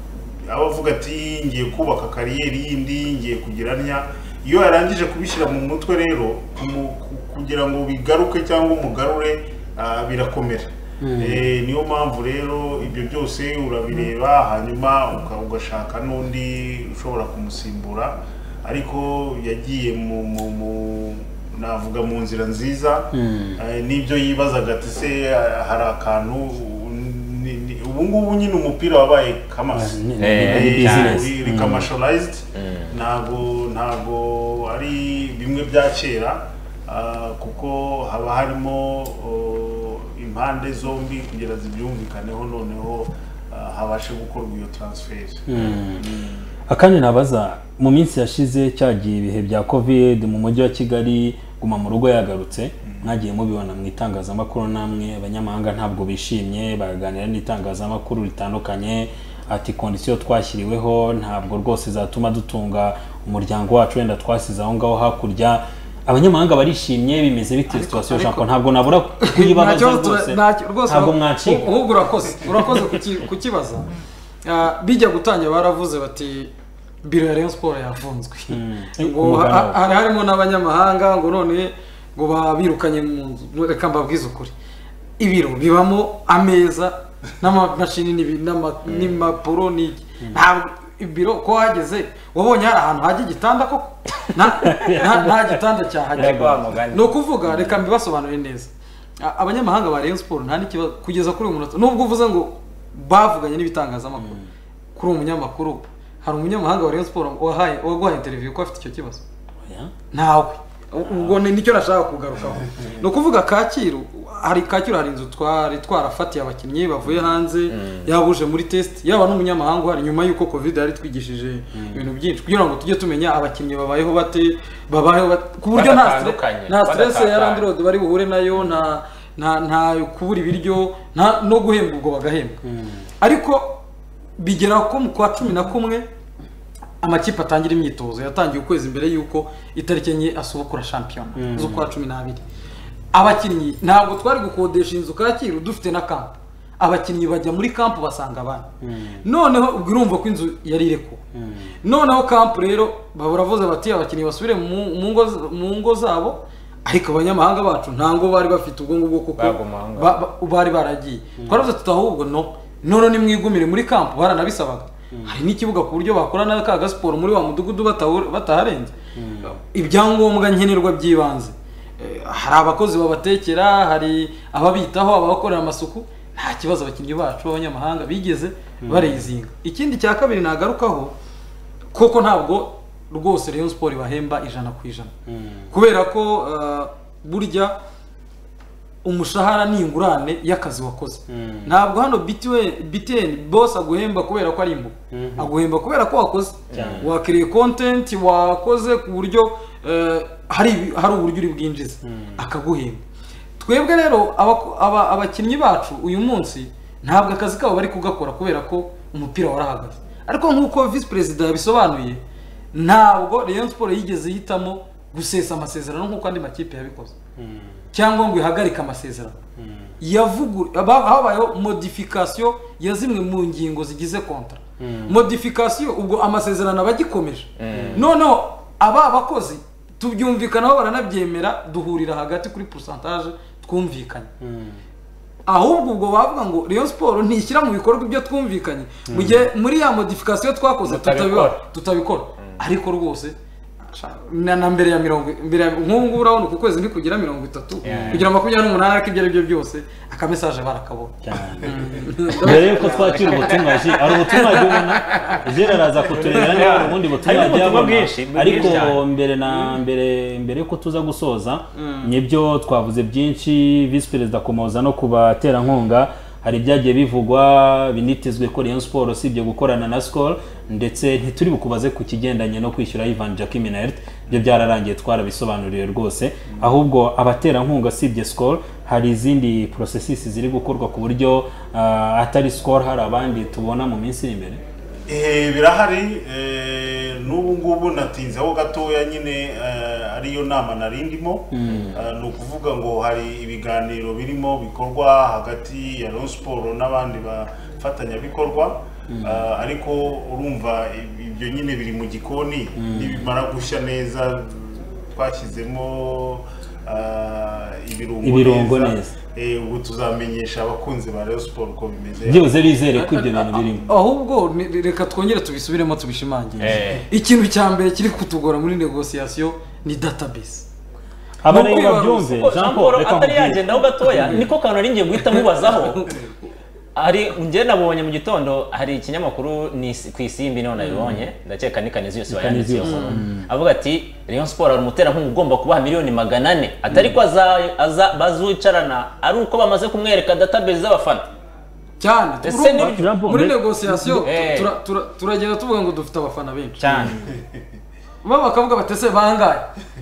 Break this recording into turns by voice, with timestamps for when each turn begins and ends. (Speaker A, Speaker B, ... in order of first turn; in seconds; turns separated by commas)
Speaker A: 0.5-46.5, Speaker B: 11.0-11.4, Speaker B: 23.1-23.6, Speaker B: 29.7-31.9, Speaker C: 30.2-31.2, Speaker C: 32.5-32.9, Speaker B: 45.5-46.1, Speaker B: 46.7-71.7, Speaker A: 52.9-53.1, Speaker D: 67.7-68.5, Speaker D: 69.2-73.9, Speaker D: 74.5-76.5, Speaker D: 77.0-84.5, Speaker B: 78.5-79.8, Speaker D: 85.2-104.4, Speaker B: 94.6-95.6, Speaker C: 96.2-97.7, Speaker B: 96.2-96.6, Speaker B: 104.2-104.5, Speaker D: 105.0-109.2, Speaker B: 109.7-109.9, Speaker D: 110.1-132.6, Speaker C: 117.7-118.1, Speaker B: 121.7-122.0, Speaker C: 125.7-127.7, Speaker B: 132.6-133.1, Speaker D: 133.2-133.8, Speaker D: 134.4-136.1, Speaker D: 137.0-142.4, Speaker B: 141.4-141.9, Speaker D: 143.1-148.7, Speaker B: 148.8-149.2, Speaker D: 149.2-151.2, Speaker B: 151.3-151.7, Speaker D: 151.8-181.1, Speaker C: 159.4-160.2, Speaker B: 165.1-165.4, Speaker B: 169.2-169.5, Speaker B: 178.8-179.3, Speaker D: 181.9-185.1, Speaker B: 185.3-185.7, Speaker D: 185.7-187.8, Speaker D: 189.0-203.0, Speaker B: 191.3-191.7, Speaker B: 195.1-195.5, Speaker C: 196.7-197.0, Speaker B: 196.7-197.1, Speaker B: 202.0-202.4, Speaker D: 203.6-217.2, Speaker B: 217.4-217.7, Speaker D: 217.9-219.4, Speaker B: 219.6-219.8, Speaker D: 220.0-234.3, Speaker B: 224.8-225.2, Speaker C: 227.6-228.1, Speaker B: 227.7-228.1, Speaker B: 234.4-234.8, Speaker D: 235.5-255.4, Speaker B: 239.1-239.5, Speaker C: 240.8-241.6, Speaker C: 247.8-248.3, Speaker B: 247.8-248.3, Speaker B: 251.2-284.6, Speaker C: 252.4-255.4, Speaker C: 256.1-259.0, Speaker D: 256.2-257.9, Speaker D: 258.5-258.8, Speaker D: 261.8-262.1, Speaker A: 285.1-312.6, Speaker B: 291.5-292.0, Speaker C: 291.7-292.0, Speaker B: 299.1-299.4, Speaker B: 302.8-303.2, Speaker B: 308.2-309.1, Speaker B: 312.2-313.9, Speaker D: 312.9-320.7, Speaker B: 316.6-316.9, Speaker C: 316.6-317.1, Speaker B: 321.4-324.5, Speaker D: 321.5-322.3, Speaker C: 321.8-326.2, Speaker D: 325.3-326.4, Speaker C: 327.0-341.3, Speaker B: 330.8-331.2, Speaker B: 332.3-333.5, Speaker D: 332.8-333.2, Speaker D: 342.0-346.8, Speaker C: 342.4-343.1, Speaker B: 342.8-344.3, Speaker C: 344.2-344.7, Speaker C: 346.8-347.2, Speaker B: 346.9-347.2, Speaker A: 347.2-347.6, Speaker D: 348.2-349.7